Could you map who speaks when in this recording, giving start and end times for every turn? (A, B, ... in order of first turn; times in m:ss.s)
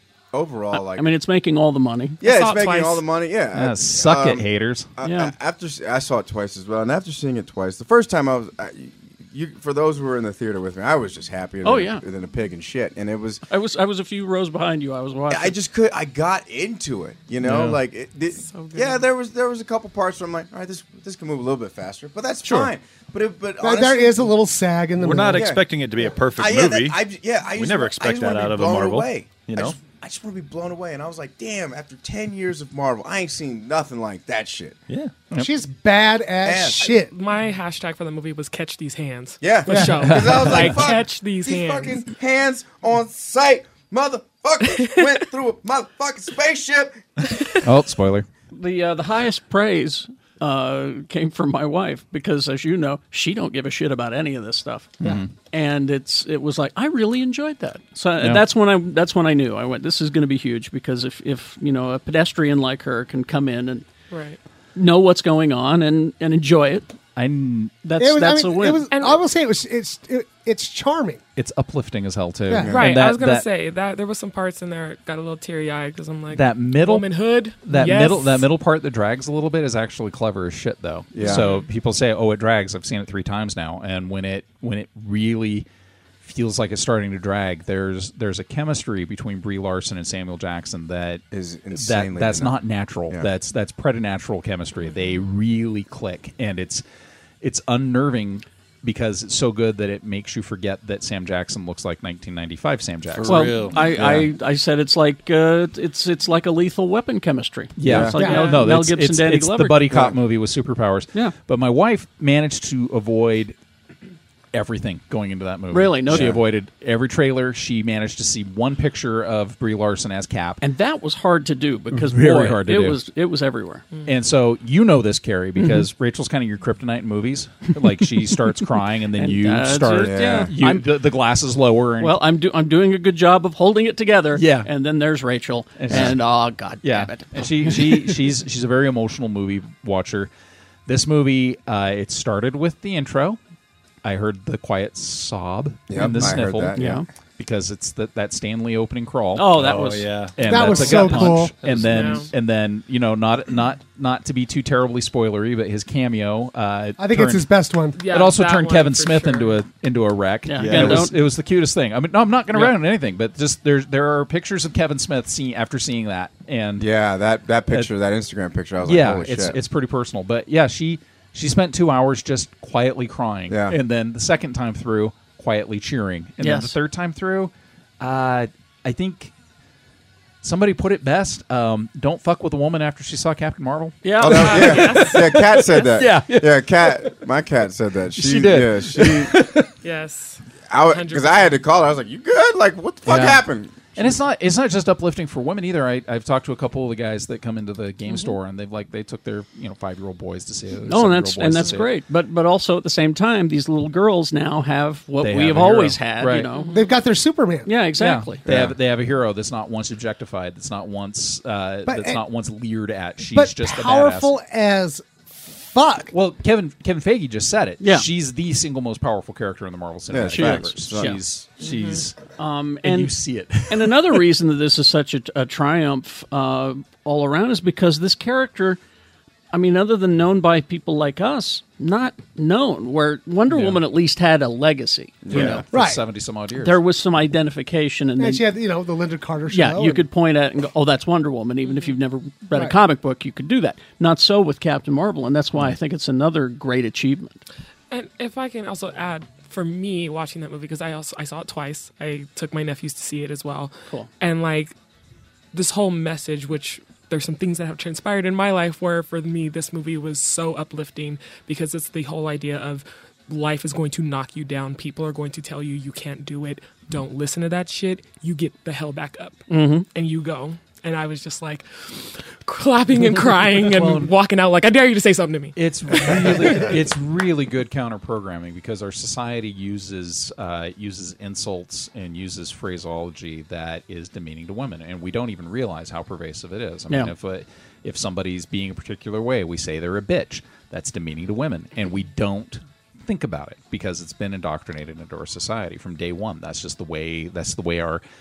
0:00.3-0:01.1 A
0:00.8-0:02.2 B
0:02.2-0:04.4 A
0:02.2-0:03.0 C
0:03.5-0:04.9 D
0:05.0-0:13.4 A
0:05.0-0:05.3 B
0:11.6-0:12.0 B
0:13.5-0:15.6 B
0:15.3-0:24.3 A
0:17.4-0:17.8 D
0:18.4-0:19.0 C
0:22.4-0:22.7 E
0:23.6-0:25.5 F
0:25.0-0:27.0 E
0:25.3-0:25.7 A
0:26.3-0:34.8 A
0:27.5-0:29.8 E
0:35.3-0:37.1 F
0:36.4-0:36.9 A
0:37.0-0:42.0 C
0:39.4-0:47.4 A
0:39.7-0:40.1 F
0:40.0-0:40.7 D
0:44.6-0:45.1 C
0:47.6-0:48.3 D
0:48.5-0:55.0 B
0:55.0-0:55.3 D
0:55.5-1:03.8 B
0:58.2-0:58.4 D
1:04.1-1:04.4 C
1:04.7-1:06.9 B
1:07.2-1:07.8 D
1:07.8-1:08.9 B
1:08.0-1:11.2 F
1:08.9-1:09.2 C
1:11.4-1:13.5 D
1:12.5-1:12.8 F
1:12.6-1:12.9 A
1:12.7-1:18.5 C
1:16.3-1:17.1 D
1:17.6-1:25.6 D
1:21.1-1:21.5 A
1:21.2-1:21.6 C
1:26.2-1:36.8 D
1:31.3-1:32.6 A
1:37.4-1:44.2 D
1:43.1-1:44.3 E
1:43.2-1:50.0 B
1:47.8-1:53.5 D
1:47.8-1:48.2 A
1:48.2-1:48.6 C
1:49.9-1:50.2 A
1:54.5-2:00.6 D
1:55.7-1:56.4 B
1:56.1-1:56.4 A
2:00.6-2:03.8 B
2:01.9-2:03.0 D
2:04.0-2:12.2 D
2:05.6-2:05.9 B
2:09.1-2:10.9 B
2:10.0-2:10.5 A
2:12.0-2:18.2 B
2:14.3-2:14.7 D
2:15.8-2:16.2 D
2:16.8-2:20.3 D
2:20.9-2:23.4 D
2:24.0-2:29.8 D
2:25.9-2:27.0 A
2:26.0-2:27.0 B
2:29.3-2:31.4 B
2:29.5-2:31.1 E
2:30.3-2:37.5 D
2:30.4-2:31.5 F
2:31.6-2:32.1 E
2:31.8-2:32.3 C
2:37.0-2:38.0 F
2:37.9-2:39.6 C
2:38.1-2:46.9 D
2:40.4-2:41.1 B
2:40.6-2:41.0 A
2:42.5-2:42.8 B
2:46.8-2:49.6 A
2:48.8-2:59.3 D
2:53.5-2:53.8 A
2:56.4-2:56.8 B
3:00.4-3:07.2 D
3:04.0-3:05.0 B
3:04.2-3:09.4 A
3:04.2-3:05.4 C
3:08.2-3:09.7 D
3:09.8-3:11.6 C
3:10.7-3:14.2 A
3:13.0-3:21.9 D
3:20.8-3:26.8 B
3:25.2-3:26.5 D
3:26.5-3:26.8 C
3:26.7-3:27.7 F
3:27.6-3:28.4 B
3:28.0-3:34.3 D
3:28.5-3:28.7 A
3:31.8-3:32.2 F
3:33.3-3:36.1 F
3:36.1-3:42.2 D
3:37.8-3:38.1 B
3:40.1-3:41.2 A
3:40.2-3:41.2 B
3:41.6-3:42.0 C
3:42.4-3:43.1 B
3:42.8-3:44.2 D
3:43.7-3:48.8 B
3:49.5-3:55.6 B
3:53.5-3:53.8 D
3:55.2-3:55.6 A
3:55.3-3:56.8 D
3:55.7-3:56.0 F
3:56.6-3:58.4 B
3:58.2-4:00.0 F
3:59.5-4:07.4 B
4:01.6-4:01.9 C
4:07.9-4:14.7 C
4:15.5-4:36.7 C
4:29.5-4:29.9 B
4:33.7-4:34.0 F
4:35.6-4:58.0 D